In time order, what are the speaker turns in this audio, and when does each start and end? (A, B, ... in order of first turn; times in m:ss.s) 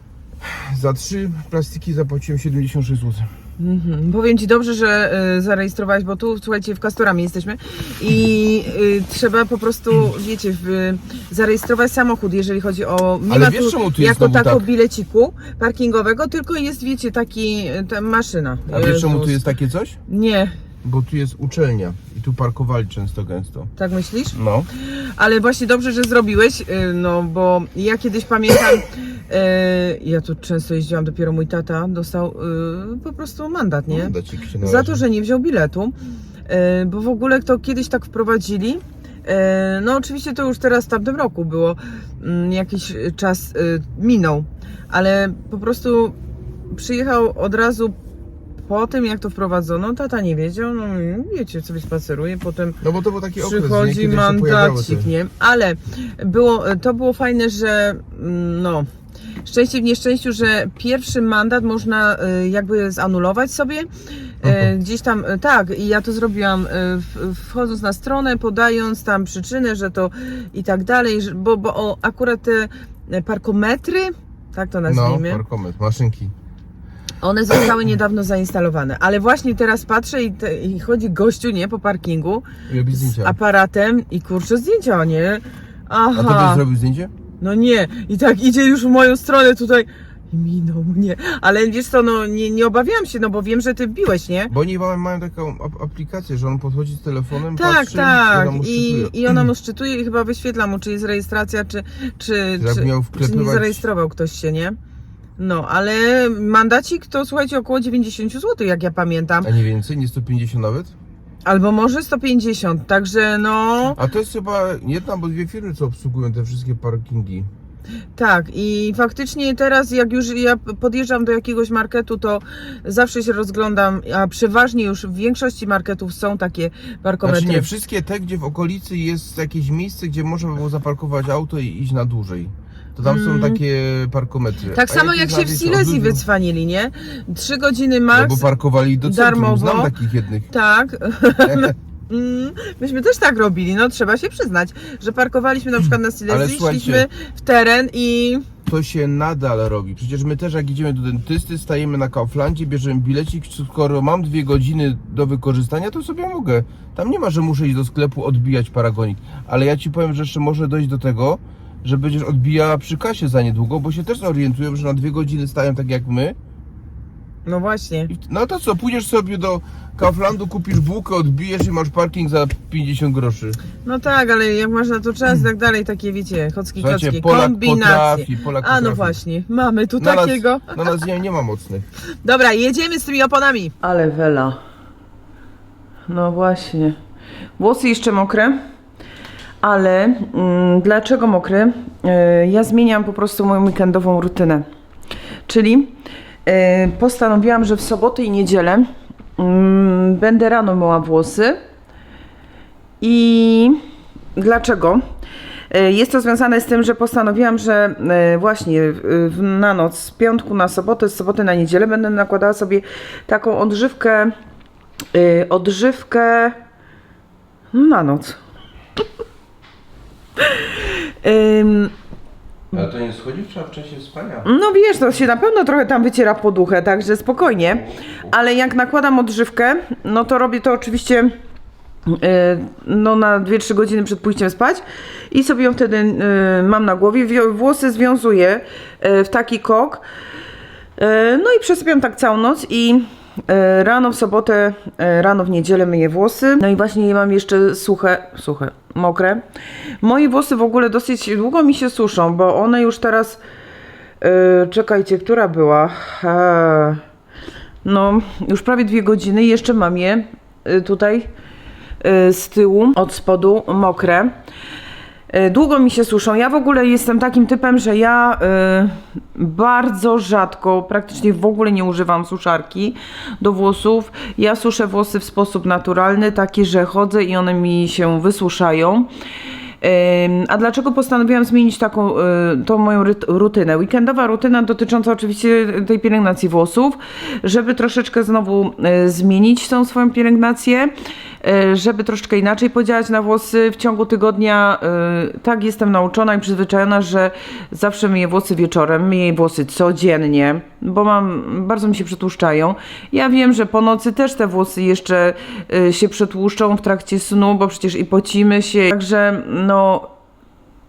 0:00.4-0:03.3 A
0:03.6-0:19.5 B
0:13.3-0:14.6 A
0:18.7-0:20.0 A
0:20.1-0:20.6 B
0:20.8-0:23.7 A
0:23.8-0:36.0 B
0:24.3-0:24.7 A
0:33.9-0:35.0 A
0:36.5-0:46.2 B
0:46.7-0:48.0 B
0:48.6-0:52.8 B
0:52.8-0:55.1 A
0:53.4-0:58.9 B
0:59.4-1:03.9 B
1:04.4-1:15.4 B
1:04.4-1:04.7 A
1:14.9-1:16.3 A
1:17.2-1:26.6 B
1:22.7-1:23.4 A
1:26.1-1:27.1 A
1:27.4-1:34.5 B
1:34.5-1:39.5 A
1:37.6-1:44.8 B
1:42.6-1:43.8 A
1:45.4-1:49.5 B
1:49.4-1:50.9 A
1:51.4-1:54.0 B
1:54.0-1:57.5 A
1:58.2-2:07.7 B
2:07.2-2:16.2 A
2:13.0-2:13.6 B
2:14.7-2:18.5 B
2:18.1-2:20.5 A
2:19.0-2:19.9 B
2:20.5-2:28.5 B
2:21.4-2:21.7 A
2:26.3-2:27.1 A
2:28.7-2:46.4 A
2:47.5-2:48.1 B
2:48.1-2:53.6 A
2:53.8-3:00.9 B
2:56.8-2:59.2 A
3:00.0-3:01.9 A
3:02.2-3:04.6 B
3:06.1-3:07.0 B
3:07.6-3:08.6 B
3:09.6-3:14.7 B
3:15.5-3:21.6 B
3:23.0-3:23.8 B
3:24.4-3:25.0 B
3:25.7-3:34.3 B
3:35.1-3:36.6 B
3:37.7-3:38.4 B
3:40.4-3:41.9 B
3:42.7-3:44.5 A
3:44.4-3:51.3 B
3:52.1-4:00.0 B
4:01.0-4:09.4 B
4:10.0-4:13.4 B
4:14.2-4:17.0 B
4:17.8-4:21.3 B
4:22.0-4:24.3 B
4:25.3-4:39.1 B
4:39.8-5:10.1 B